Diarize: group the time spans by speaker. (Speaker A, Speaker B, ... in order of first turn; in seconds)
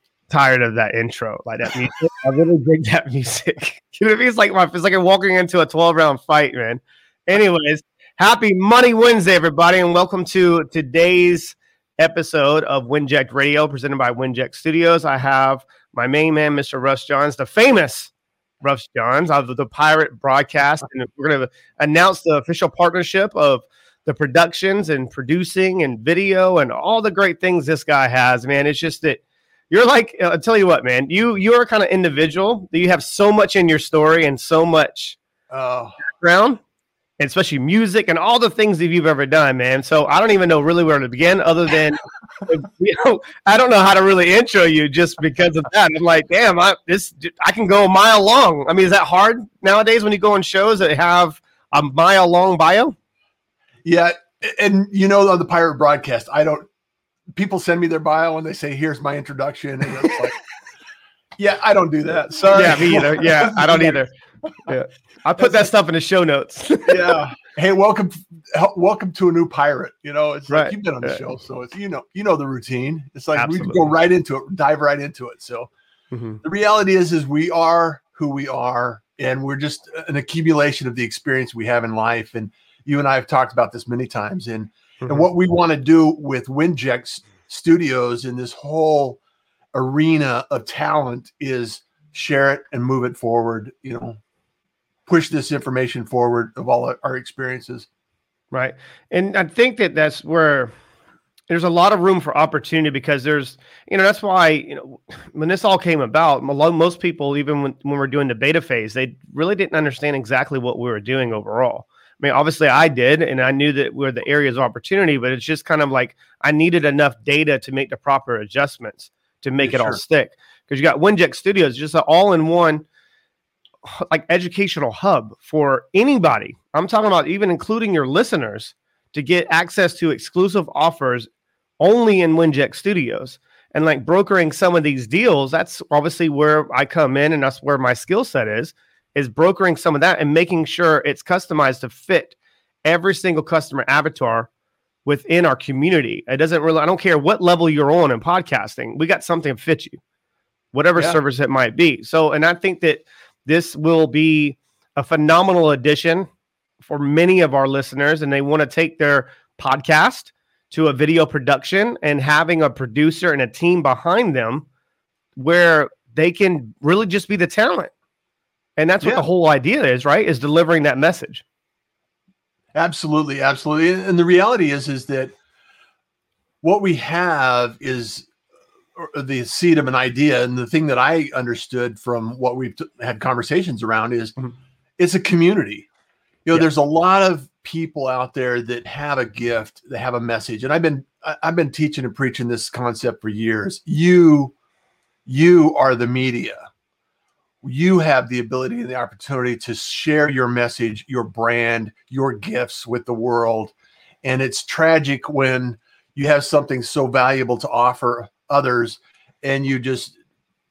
Speaker A: 0.3-18.1, 18.6-35.2, 36.1-36.6, 37.2-53.0, 62.5-64.1, 64.7-67.2, 70.5-71.2, 73.3-73.8, 76.1-76.4, 98.5-100.7, 101.5-122.8, 123.8-131.3, 131.8-144.5, 145.1-150.0, 150.7-156.3, 156.8-164.7, 165.4-167.9, 168.8-171.4
Speaker B: 35.5-36.0, 53.9-56.7, 57.3-60.4, 61.4-64.0, 65.4-65.7, 66.9-75.7, 76.4-89.2, 89.7-94.2, 95.1-97.9, 119.6-120.0, 172.7-175.3, 176.6-178.3, 179.0-184.4, 185.0-185.9, 186.5-194.5, 195.3-196.7, 197.6-210.2